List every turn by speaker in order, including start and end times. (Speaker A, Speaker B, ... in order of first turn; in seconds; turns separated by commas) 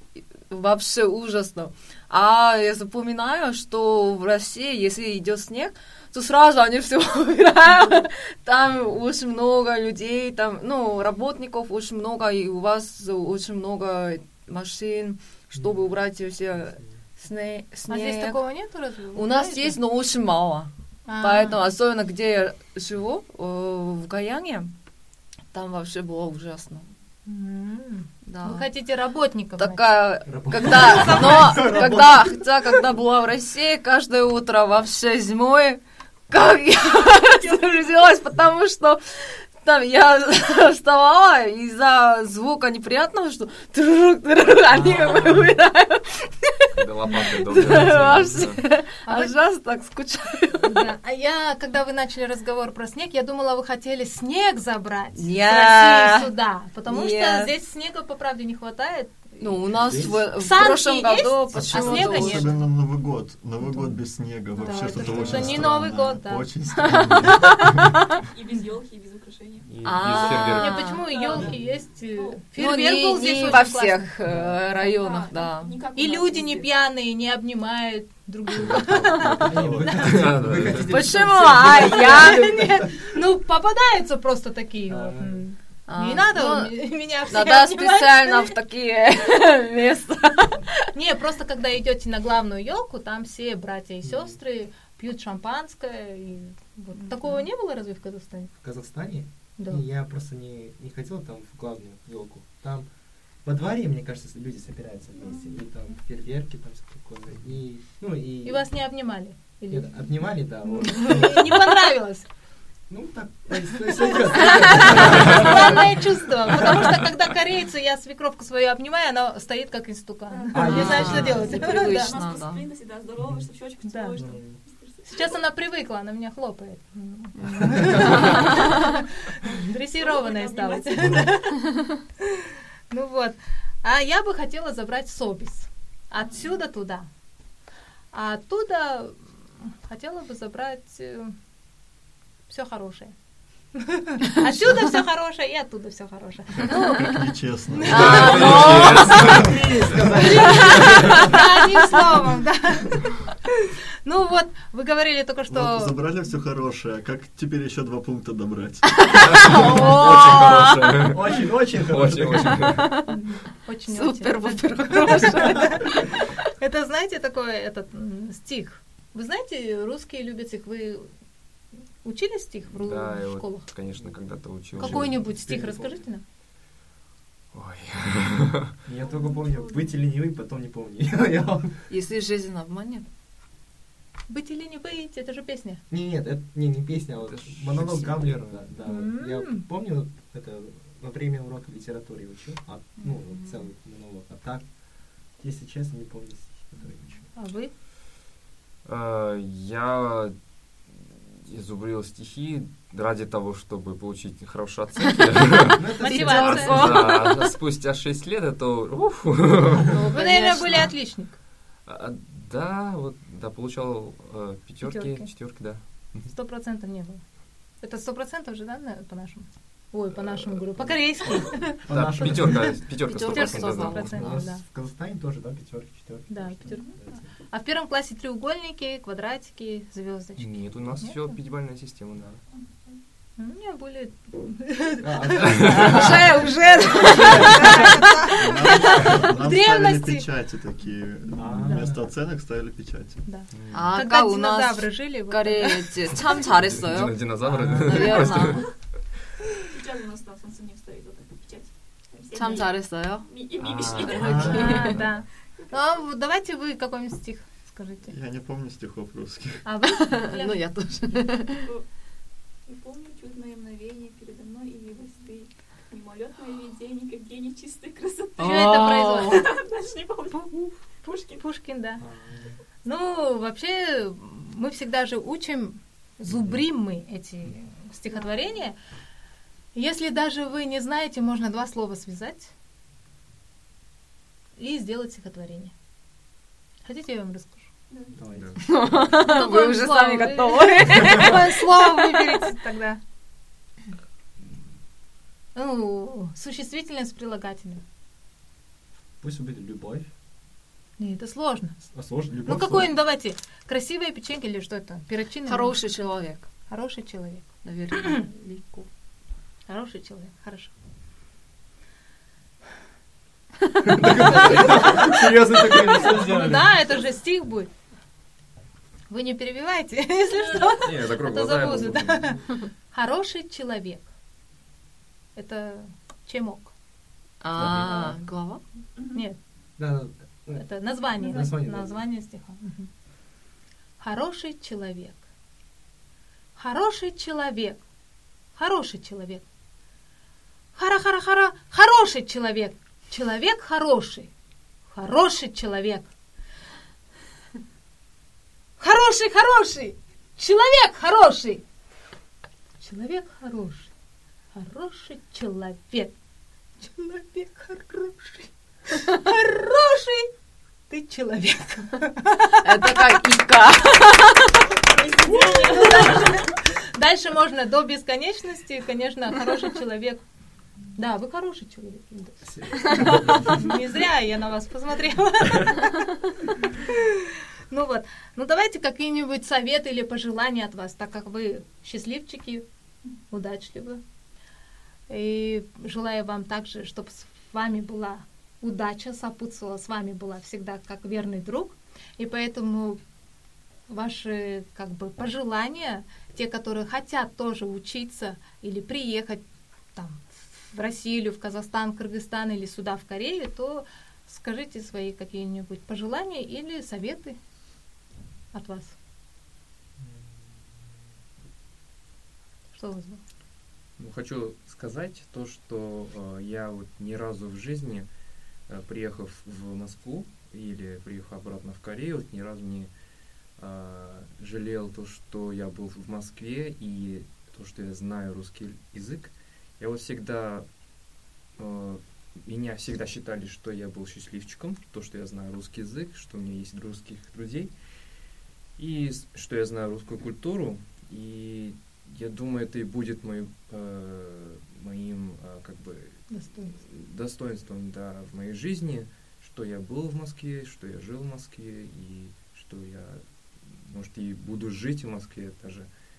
Speaker A: 0.3-18.4, Speaker B: 15.6-15.9, Speaker C: 17.9-19.8, Speaker A: 19.1-24.7, Speaker C: 21.1-21.6, Speaker A: 25.5-26.9, Speaker C: 27.3-31.7, Speaker A: 28.2-28.7, Speaker A: 29.6-50.9, Speaker B: 30.3-33.0, Speaker D: 37.0-38.0, Speaker E: 46.8-48.6, Speaker C: 49.0-49.4, Speaker C: 50.6-59.7, Speaker A: 55.2-56.3, Speaker A: 56.9-57.5, Speaker A: 59.4-62.5, Speaker B: 59.7-60.3, Speaker C: 60.3-62.6, Speaker F: 61.5-68.0, Speaker C: 63.6-64.0, Speaker C: 64.5-66.5, Speaker B: 64.8-65.7, Speaker A: 66.9-67.3, Speaker D: 68.3-72.5, Speaker E: 69.7-70.8, Speaker A: 69.8-71.1, Speaker C: 70.6-74.1, Speaker A: 72.5-75.8, Speaker B: 74.3-74.6, Speaker D: 74.8-76.7, Speaker C: 76.0-80.1, Speaker B: 79.3-83.2, Speaker F: 79.6-79.8, Speaker E: 79.9-81.1, Speaker A: 80.8-82.6, Speaker C: 81.7-88.5, Speaker B: 84.9-85.5, Speaker A: 85.9-90.8, Speaker C: 90.9-98.5, Speaker B: 94.0-94.4, Speaker A: 97.0-97.5, Speaker B: 98.6-102.9, Speaker C: 99.6-99.8, Speaker B: 103.4-108.7, Speaker D: 105.2-105.6, Speaker C: 108.4-112.3, Speaker B: 109.7-111.7, Speaker B: 112.9-116.9, Speaker C: 114.0-122.2, Speaker D: 120.3-125.4, Speaker B: 120.5-121.7, Speaker A: 120.7-122.7, Speaker B: 123.2-123.5, Speaker C: 123.8-124.3, Speaker B: 124.2-124.6, Speaker C: 125.1-131.7, Speaker A: 127.4-128.8, Speaker D: 128.1-128.5, Speaker D: 129.9-131.4, Speaker C: 132.9-137.1, Speaker C: 138.1-141.3, Speaker C: 142.5-143.1, Speaker C: 143.8-149.4, Speaker F: 146.9-148.6, Speaker A: 147.9-149.5, Speaker E: 147.9-151.3, Speaker B: 148.1-151.4, Speaker C: 150.0-153.3, Speaker A: 150.3-151.3, Speaker C: 154.0-156.0, Speaker F: 155.5-159.2, Speaker A: 158.8-161.0, Speaker E: 159.2-162.9, Speaker B: 161.1-162.8, Speaker A: 162.3-163.2, Speaker C: 163.1-171.1, Speaker A: 163.9-166.0, Speaker C: 172.0-173.7, Speaker E: 172.7-175.4, Speaker B: 174.8-176.0, Speaker C: 174.8-176.2, Speaker E: 177.5-178.7, Speaker B: 178.9-181.8, Speaker D: 179.0-180.0, Speaker A: 181.9-183.1, Speaker C: 184.3-185.8, Speaker B: 185.9-197.3, Speaker E: 187.2-188.7, Speaker C: 188.8-189.6, Speaker A: 193.0-193.7, Speaker C: 197.4-197.7, Speaker E: 198.8-210.0, Speaker B: 205.8-207.0, Speaker C: 206.0-207.2, Speaker A: 206.4-207.4, Speaker A: 209.9-211.0, Speaker C: 210.1-211.4, Speaker E: 211.9-216.3, Speaker C: 214.8-217.2, Speaker C: 217.8-221.9, Speaker B: 221.8-223.0, Speaker E: 221.9-224.1, Speaker C: 222.4-224.6, Speaker A: 223.0-224.5, Speaker B: 223.6-227.3, Speaker C: 226.3-231.3, Speaker E: 230.4-232.4, Speaker C: 233.4-240.3, Speaker B: 235.0-238.0, Speaker A: 235.6-238.1, Speaker F: 238.4-243.3, Speaker B: 241.4-242.1, Speaker C: 243.3-246.2, Speaker E: 243.5-243.9, Speaker A: 243.7-247.3, Speaker E: 246.7-248.8, Speaker B: 247.4-248.4, Speaker A: 247.8-248.7, Speaker D: 248.4-248.8, Speaker D: 249.7-256.0, Speaker A: 252.3-255.0, Speaker C: 254.1-258.1, Speaker F: 254.2-254.6, Speaker F: 258.1-259.7, Speaker C: 259.6-261.2, Speaker A: 260.0-261.7, Speaker D: 262.7-271.5, Speaker C: 268.4-269.4, Speaker A: 268.4-269.4, Speaker C: 270.3-270.7, Speaker C: 271.3-272.0, Speaker B: 272.0-272.5, Speaker C: 272.8-278.8, Speaker D: 278.1-278.6, Speaker C: 279.7-282.5, Speaker C: 284.6-285.7, Speaker C: 286.9-287.7, Speaker D: 287.9-288.2, Speaker B: 288.1-288.6, Speaker E: 288.3-288.6, Speaker A: 288.6-292.4, Speaker C: 289.1-293.0, Speaker C: 295.6-297.8, Speaker B: 299.2-300.1, Speaker C: 301.0-301.8, Speaker B: 301.9-302.9, Speaker C: 302.4-305.8, Speaker A: 305.4-306.5, Speaker C: 306.7-308.2, Speaker A: 307.6-308.9, Speaker C: 309.7-310.7, Speaker B: 313.8-316.8, Speaker E: 314.3-315.3, Speaker C: 315.9-317.7, Speaker C: 319.1-324.1, Speaker D: 320.3-320.8, Speaker E: 320.8-322.4, Speaker C: 325.4-326.7, Speaker A: 327.4-328.6, Speaker E: 327.6-328.1, Speaker B: 327.6-328.1, Speaker D: 329.0-329.2, Speaker B: 329.8-330.7, Speaker C: 330.6-332.9, Speaker D: 331.2-331.6, Speaker B: 331.2-332.0, Speaker C: 334.0-335.2, Speaker C: 336.6-337.8, Speaker C: 338.6-339.4, Speaker C: 340.8-344.3, Speaker C: 344.9-346.1, Speaker C: 348.8-351.6, Speaker C: 352.8-353.9, Speaker C: 354.5-356.1, Speaker C: 356.8-360.3, Speaker C: 360.9-363.2, Speaker A: 362.6-364.6, Speaker D: 364.8-366.5, Speaker C: 365.2-370.2, Speaker C: 371.0-376.2, Speaker B: 372.4-373.6, Speaker C: 376.7-382.7, Speaker C: 383.3-384.0, Speaker C: 385.1-393.0, Speaker C: 393.9-399.4, Speaker C: 399.9-407.4, Speaker C: 408.5-409.0, Speaker E: 410.0-410.6, Speaker C: 412.7-413.2, Speaker E: 414.0-418.1, Speaker E: 418.7-422.9, Speaker E: 423.6-430.7, Speaker E: 431.6-437.8, Speaker E: 438.8-455.9, Speaker C: 446.3-446.7